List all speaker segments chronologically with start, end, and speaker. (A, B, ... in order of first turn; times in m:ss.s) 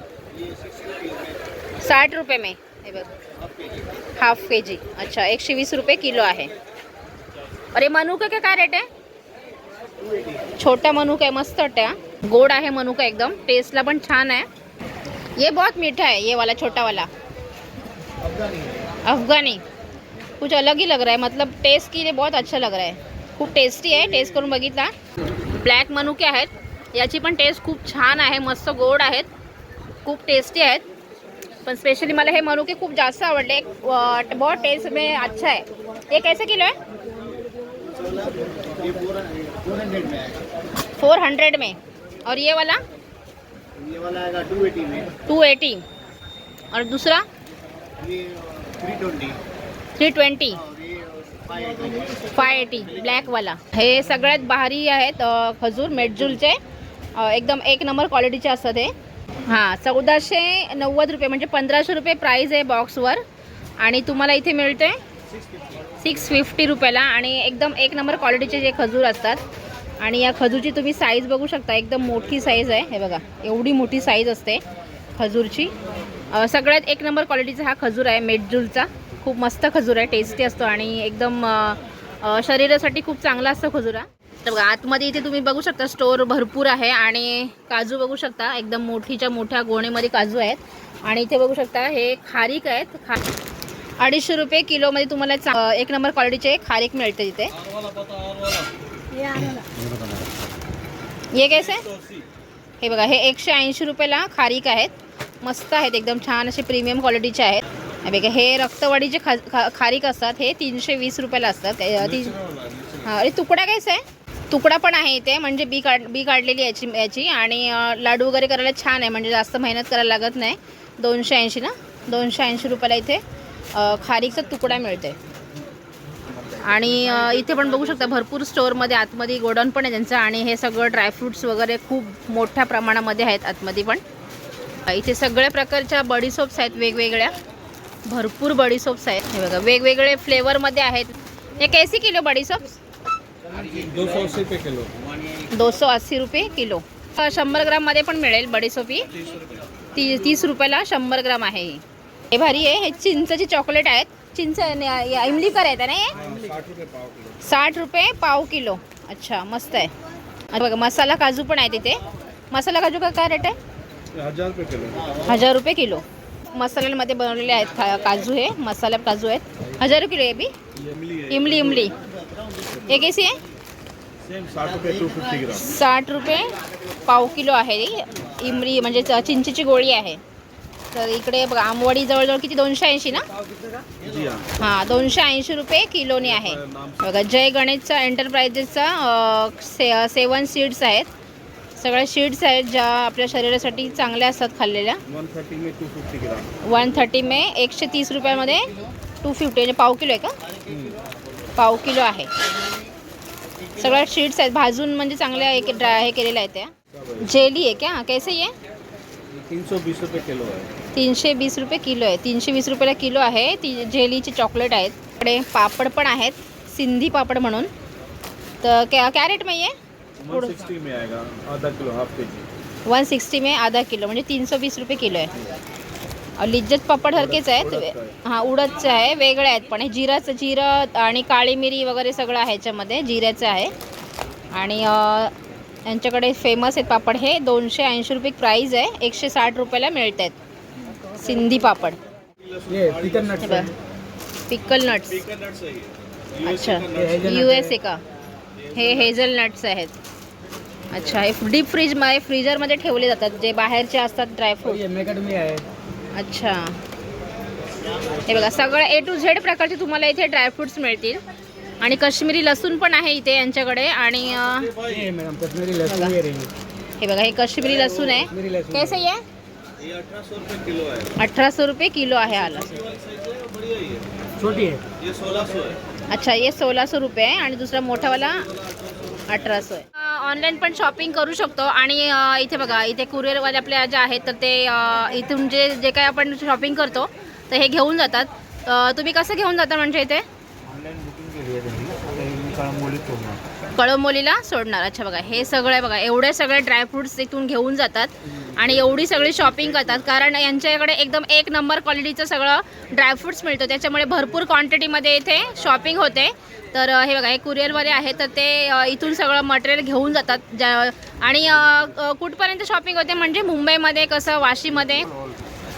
0:00.3-0:01.5 A
0:01.8-0:03.1 B
0:03.4-0:03.9 A
0:04.2-0:06.5 B
0:07.7-0:08.9 B
0:10.0-0:10.5 A
0:10.6-0:14.5 B
0:15.4-0:17.1 B
0:18.2-0:19.0 A
0:19.0-0:19.6 B
0:20.4-0:24.9 B
0:25.5-0:29.3 B
0:30.0-0:30.8 B
0:31.6-0:36.8 B
0:37.6-0:40.4 A
0:41.0-0:42.8 B
0:43.8-0:45.1 A
0:45.3-0:45.8 B
0:46.7-0:47.3 B
0:48.0-0:49.4 A
0:50.0-0:50.6 B
0:50.5-0:53.1 A
0:52.3-0:56.6 B
0:57.2-1:03.2 B
1:03.8-1:05.0 B
1:06.0-1:09.4 B
1:10.0-1:14.6 B
1:15.2-1:15.7 B
1:16.3-1:33.2 B
1:34.0-1:37.6 B
1:37.6-1:39.3 C
1:39.5-1:39.8 D
1:41.3-1:41.9 B
1:41.8-1:42.2 C
1:42.8-1:52.4 B
1:52.1-1:53.1 C
1:53.0-2:05.2 B
2:06.6-2:14.0 B
2:06.6-2:07.2 C
2:14.8-2:17.4 B
2:18.1-2:22.7 B
2:23.4-2:24.5 A
2:23.6-2:24.9 C
2:25.5-2:29.1 B
2:29.1-2:29.7 C
2:29.9-2:36.2 B
2:36.2-2:37.4 C
2:37.4-2:39.9 B
2:40.5-2:43.6 B
2:44.1-2:45.2 C
2:45.0-2:45.4 A
2:45.2-2:50.6 B
2:50.7-2:52.0 C
2:51.3-2:52.0 B
2:51.8-2:53.5 A
2:52.9-2:53.4 B
2:54.2-2:55.7 C
2:55.5-3:00.2 B
3:00.9-3:03.3 B
3:04.0-3:04.6 C
3:04.6-3:11.1 B
3:06.2-3:07.0 C
3:11.8-3:15.0 B
3:15.1-3:16.7 C
3:16.6-3:20.4 B
3:20.4-3:21.1 A
3:20.7-3:21.0 C
3:21.6-3:22.4 B
3:22.6-3:22.9 A
3:23.5-3:24.0 A
3:23.8-3:28.6 B
3:26.9-3:27.5 C
3:29.3-3:30.7 C
3:30.9-3:37.7 B
3:38.6-3:40.7 B
3:40.2-3:42.5 C
3:42.8-3:45.3 B
3:46.4-3:53.7 B
3:47.1-3:48.2 C
3:54.5-3:55.3 B
3:55.8-4:00.4 B
4:01.1-4:02.0 B
4:02.4-4:03.8 C
4:02.7-4:03.6 D
4:03.4-4:03.7 B
4:04.5-4:05.2 B
4:05.0-4:07.6 C
4:06.4-4:08.0 B
4:06.9-4:07.6 D
4:08.6-4:09.1 C
4:08.7-4:09.9 B
4:10.9-4:15.0 B
4:14.8-4:15.7 D
4:16.1-4:16.8 B
4:17.8-4:18.8 A
4:18.3-4:21.2 B
4:21.8-4:24.7 B
4:24.4-4:25.2 C
4:24.9-4:26.5 D
4:25.9-4:26.2 B
4:27.0-4:29.2 B
4:28.3-4:28.9 D
4:29.8-4:31.2 C
4:31.2-4:32.8 B
4:32.4-4:35.8 C
4:34.4-4:34.8 D
4:36.1-4:38.5 B
4:38.4-4:39.2 C
4:39.3-4:50.2 B
4:50.7-4:53.4 A
4:53.7-5:15.1 B